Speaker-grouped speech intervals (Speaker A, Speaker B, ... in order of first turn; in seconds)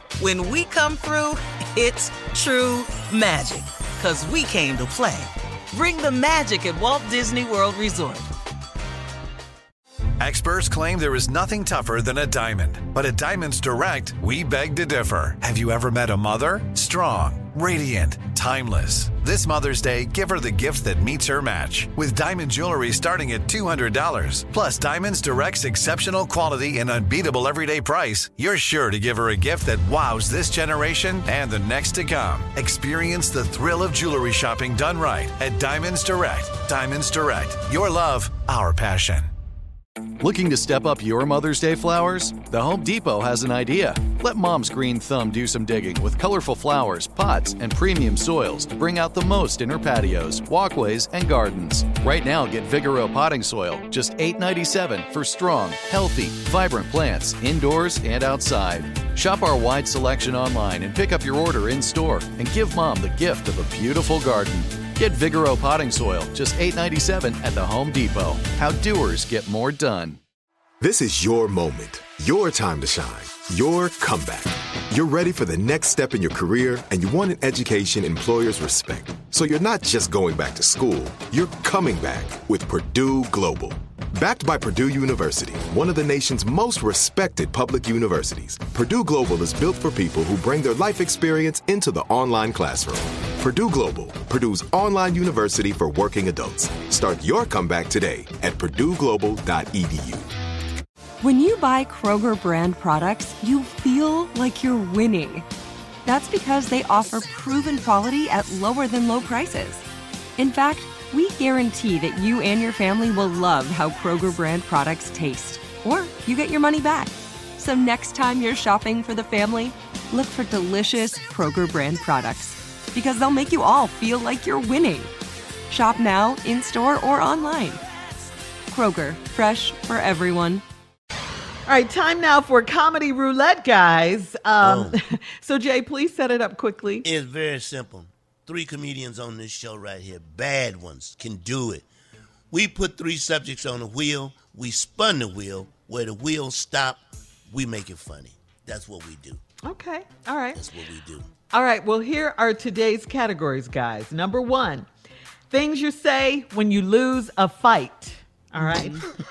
Speaker A: 0.2-8.3
Speaker B: 10.2-39.3
Speaker C: 40.2-70.2
Speaker D: 70.8-100.2
Speaker E: 101.2-105.4, 106.0-109.8, 110.4-125.1, 125.7-127.8, 128.7-130.6
Speaker F: 131.7-137.1, 149.6-150.6, 151.5-154.9, 155.5-159.0
Speaker G: 134.6-135.0, 137.0-141.9, 142.5-149.4, 150.5-151.3